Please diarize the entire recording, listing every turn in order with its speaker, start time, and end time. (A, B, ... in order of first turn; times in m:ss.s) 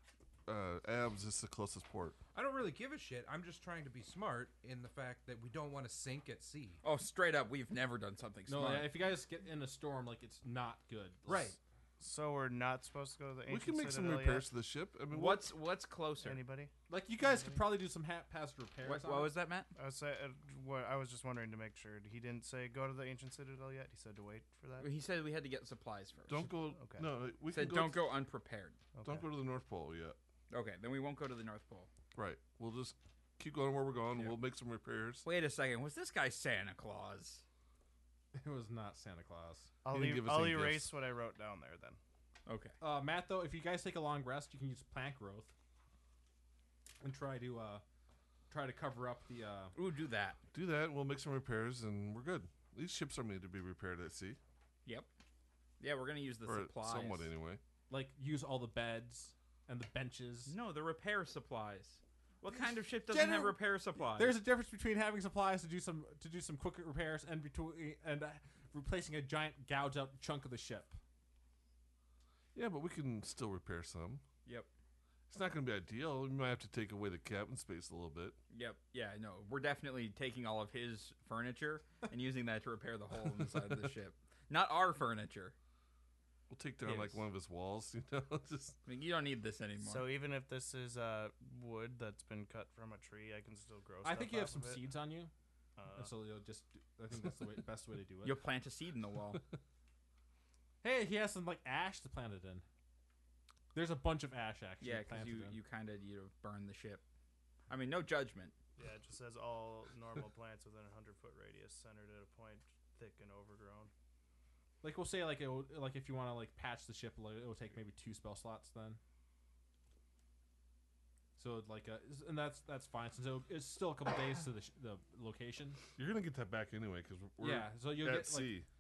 0:00.5-0:02.2 A
0:02.3-0:06.8 B
0:06.8-0:08.9 C
0:08.5-0:11.6 D
0:11.3-0:11.6 B
0:12.0-0:14.5 E
0:13.5-0:15.5 A
0:15.1-0:16.4 C
0:16.2-0:16.7 E
0:16.9-0:19.3 D
0:18.8-0:19.7 C
0:19.8-0:24.9 E
0:24.8-0:26.5 C
0:26.3-0:28.1 A
0:26.7-0:27.1 E
0:27.5-0:28.8 C
0:29.0-0:29.3 E
0:29.0-0:30.2 A
0:30.5-0:31.9 C
0:32.2-0:35.2 A
0:35.2-0:37.4 C
0:38.3-0:39.7 D
0:39.8-0:42.0 E
0:39.9-0:40.9 A
0:42.5-0:42.8 C
0:42.8-0:45.5 D
0:47.0-0:47.8 D
0:48.5-0:49.8 D
0:49.8-0:50.4 C
0:50.5-0:54.4 A
0:55.8-0:57.3 C
0:56.5-0:57.6 A
0:57.9-1:00.5 D
1:00.5-1:04.4 C
1:02.5-1:11.0 D
1:12.6-1:14.2 A
1:15.3-1:18.4 A
1:18.5-1:25.6 C
1:26.5-1:28.8 A
1:26.8-1:27.2 C
1:28.9-1:30.1 C
1:29.8-1:34.9 E
1:34.0-1:35.3 D
1:35.8-1:36.1 E
1:36.0-1:38.4 D
1:38.2-1:39.4 C
1:40.8-1:42.6 D
1:43.7-1:45.6 D
1:44.8-1:47.0 C
1:47.7-1:48.5 C
1:48.8-1:53.9 E
1:54.8-1:59.0 D
2:01.4-2:05.8 D
2:06.0-2:08.7 A
2:07.4-2:08.5 D